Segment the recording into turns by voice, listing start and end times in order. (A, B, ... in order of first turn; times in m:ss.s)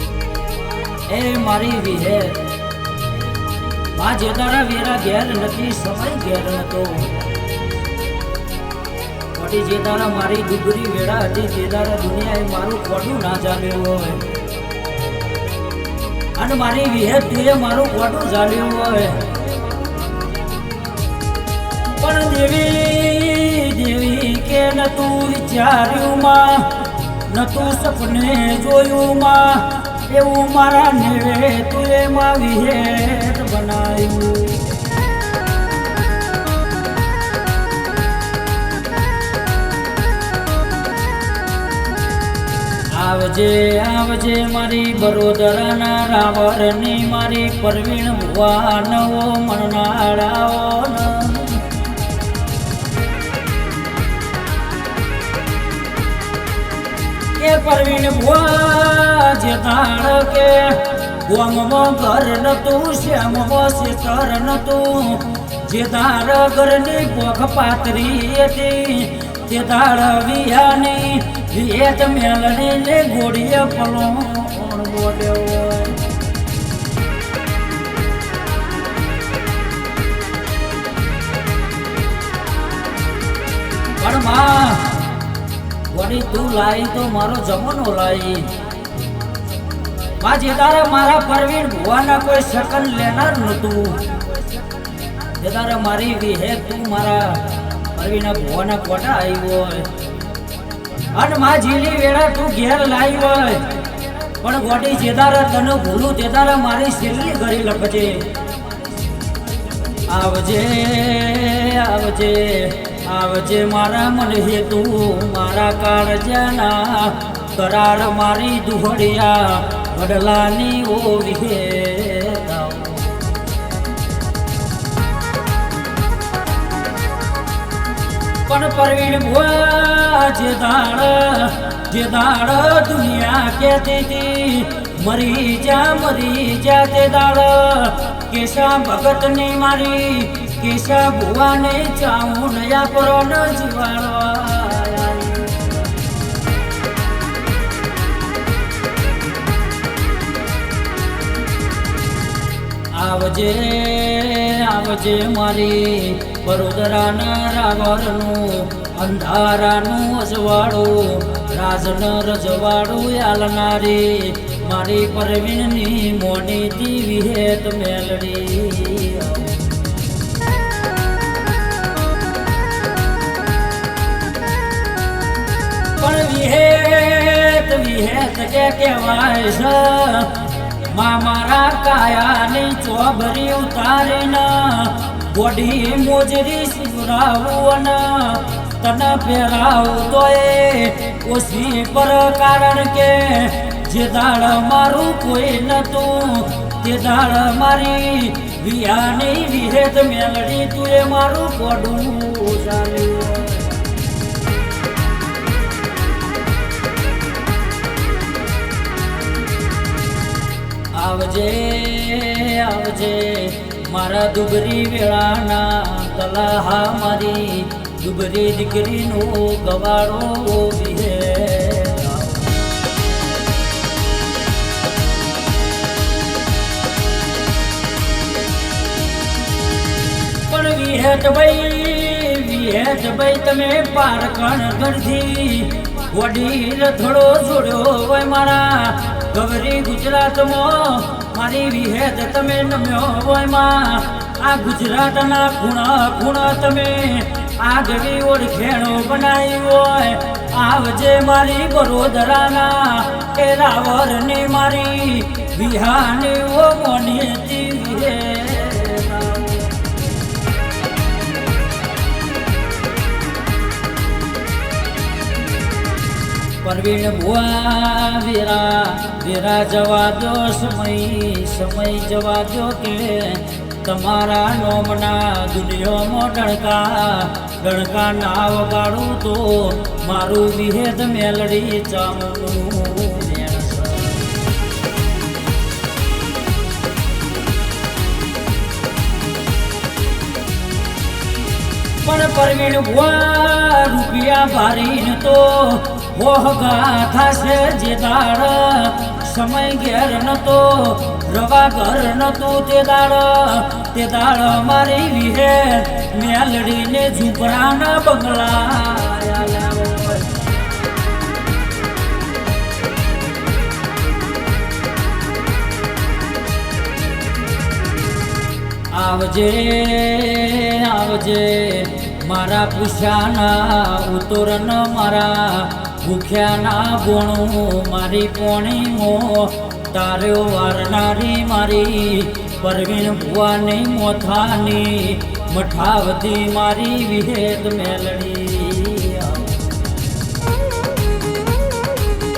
0:01.1-0:02.4 A
0:03.9-0:07.2 A
0:09.3-0:14.2 A
0:16.4-0:19.3 A
0:22.0-0:34.8 A
0:42.9-0:51.6 A
0:57.4-1:16.0 A
1:24.0-1:25.2 A
1:25.9-1:28.6 A
1:30.2-1:34.4 A
1:35.2-1:39.9 A
1:41.1-1:43.7 A
1:44.4-1:48.3 A
1:50.1-2:03.3 A
2:08.5-2:25.8 A
2:32.9-2:49.9 A
2:56.0-3:23.8 A
3:30.9-3:42.5 A
3:50.5-4:19.8 A
4:26.6-4:44.3 A
4:52.0-5:10.4 A
5:18.9-5:39.7 A